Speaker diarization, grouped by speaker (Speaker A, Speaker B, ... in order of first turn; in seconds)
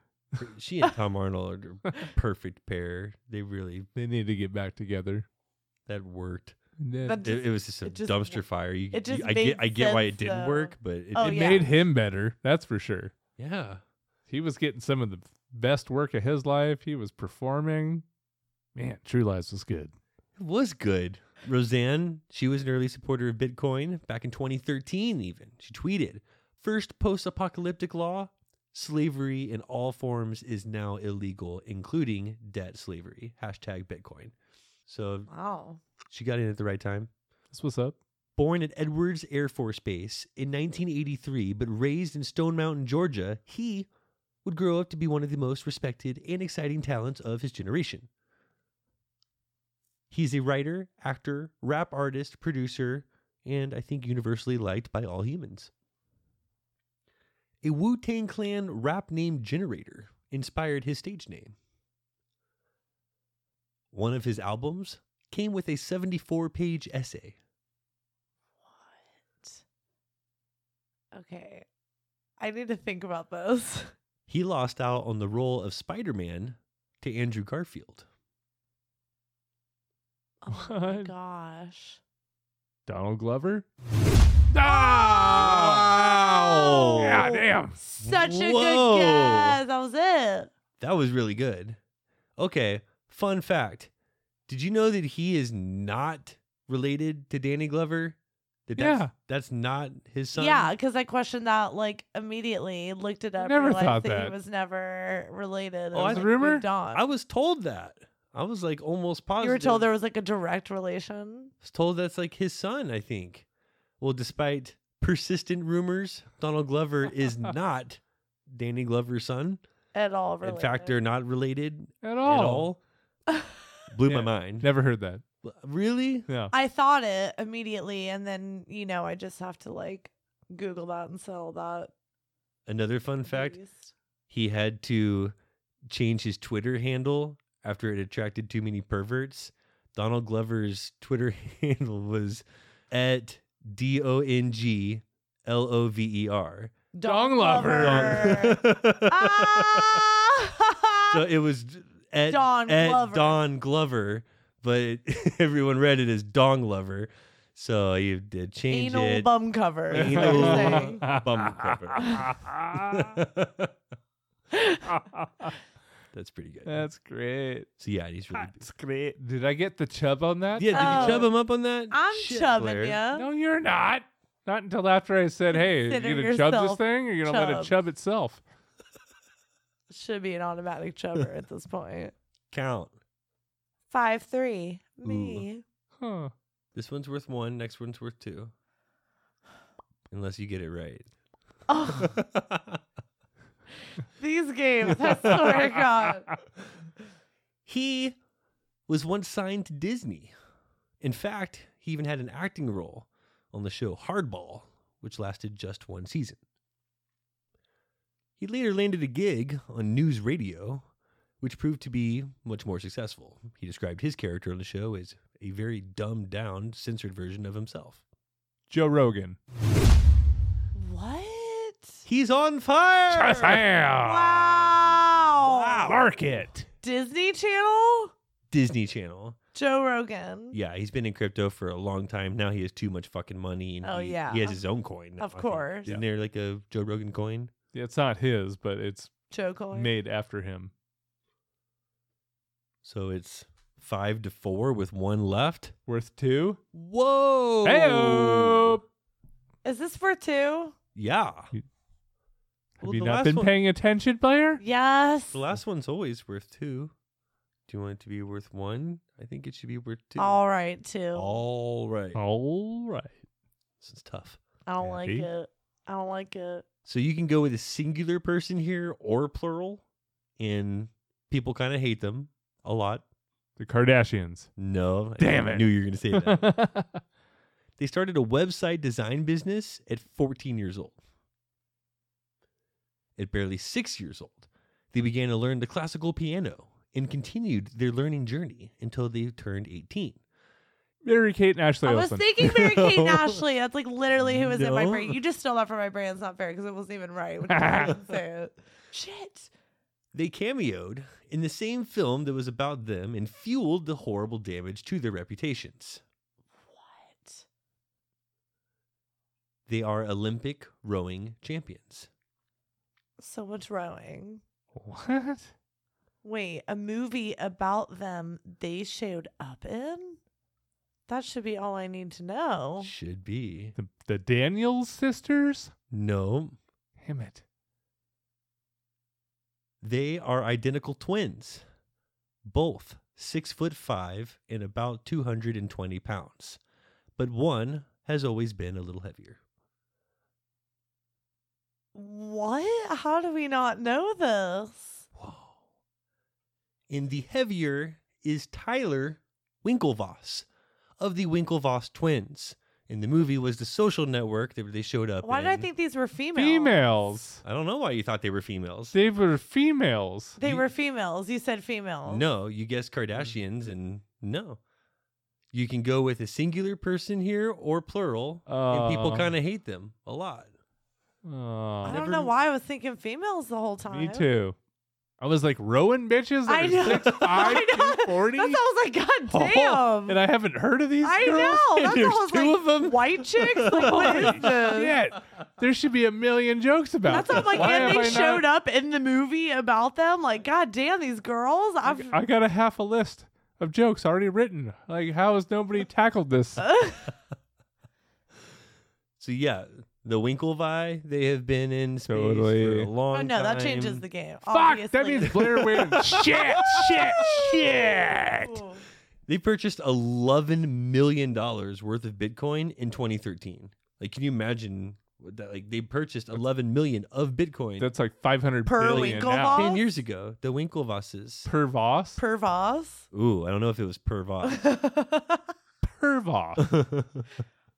Speaker A: 0.4-3.9, 5.9-6.6, 7.2-11.7, 13.4-13.8, 20.4-34.3, 34.9-35.3, 36.1-37.1, 38.4-43.9, 44.4-48.1, 50.1-55.7, 57.6-61.6, 63.9-67.4, 74.3-78.1, 84.7-87.4, 88.0-89.6, 90.8-91.8, 92.4-93.9, 94.5-100.7, 105.9-106.3, 106.9-109.9, 111.6-113.5, 114.0-119.6, 120.4-122.8, 123.9-124.7, 125.4-126.3, 132.7-133.6, 134.3-135.3, 135.8-146.7, 147.7-150.0, 151.1-159.3, 159.9-163.7, 166.1-166.9, 167.8-168.6, 170.6-173.0, 182.5-182.9, 185.0-185.4, 186.7-188.5, 190.1-191.1, 191.9-192.8, 195.0-195.6, 197.7-198.2, 198.9-200.3, 201.0-206.4, 208.4-210.8, 211.4-218.0, 222.1-223.7, 225.4-226.1, 228.5-229.4, 230.5-237.5, 242.8-245.8, 246.7-248.8, 250.9-251.5, 252.8-253.5, 255.3-256.9, 257.7-260.4, 261.1-262.2, 263.8-264.4, 266.9-269.8, 270.4-273.0, 274.6-276.6, 277.8-281.0, 283.2-290.2, 292.4-293.1, 294.2-295.2, 300.1-306.0, 309.7-312.1, 322.8-323.7, 325.9-326.6, 329.8-331.6, 332.4-336.6, 337.2-339.4, 345.2-345.5, 346.9-350.4, 351.0-355.7, 357.4-358.9, 362.1-364.6, 365.5-370.5, 371.9-372.3, 381.8-384.5, 387.2-388.1, 399.2-404.0, 405.3-407.2, 409.3-417.9, 418.9-421.5, 423.1-424.6, 426.6-427.2
Speaker B: 4.0-5.3, 6.8-7.3, 11.2-13.2, 14.3-18.0, 18.8-19.9, 37.5-38.0, 80.5-81.1, 82.9-83.7, 84.5-87.8, 98.8-99.1, 103.4-104.3, 106.0-106.7, 122.0-122.7, 124.0-125.2, 126.3-126.5, 147.0-148.5, 159.9-163.2, 164.9-165.5, 166.7-167.7, 168.3-171.2, 173.1-178.4, 186.0-186.3, 218.7-219.4, 223.1-224.8, 225.9-226.7, 237.7-239.1, 239.7-240.7, 245.9-246.6, 247.6-248.8, 252.8-254.6, 262.1-263.1, 264.8-265.3, 273.6-274.5, 275.2-277.0, 291.0-292.4, 297.5-298.0, 314.8-315.5, 323.8-325.7, 327.0-327.4, 356.4-357.4, 358.9-360.4, 368.5-369.3, 371.2-372.0, 373.9-374.6, 375.2-378.6, 379.3-382.0, 383.7-388.5, 391.9-396.7, 402.1-402.9, 404.5-408.6, 417.8-419.7, 421.4-422.2, 425.8-426.8
Speaker C: 7.1-11.7, 35.3-35.8, 68.7-69.6, 71.1-71.7, 72.4-73.9, 80.4-82.0, 84.7-90.5, 100.3-107.0, 109.4-111.5, 119.9-121.0, 126.5-131.9, 133.3-133.9, 146.9-151.2, 152.3-153.4, 158.7-161.1, 164.5-164.8, 170.7-171.3, 171.9-173.3, 175.5-177.7, 179.9-182.1, 183.9-185.6, 191.7-192.1, 194.2-196.3, 220.7-222.0, 224.0-226.0, 226.8-228.1, 229.6-230.6, 233.8-234.6, 235.2-235.9, 239.3-239.9, 249.6-250.7, 254.6-255.4, 260.2-261.4, 264.7-266.6, 291.9-299.5, 306.7-307.4, 313.2-314.4, 316.2-320.2, 321.1-322.9, 341.9-345.1, 355.2-356.8, 360.4-362.3, 371.8-374.3, 376.5-380.2, 381.0-384.9, 387.1-392.2, 396.6-397.1, 403.1-405.4, 407.1-407.5, 408.4-408.8, 418.7-419.9, 422.2-423.1, 424.4-425.5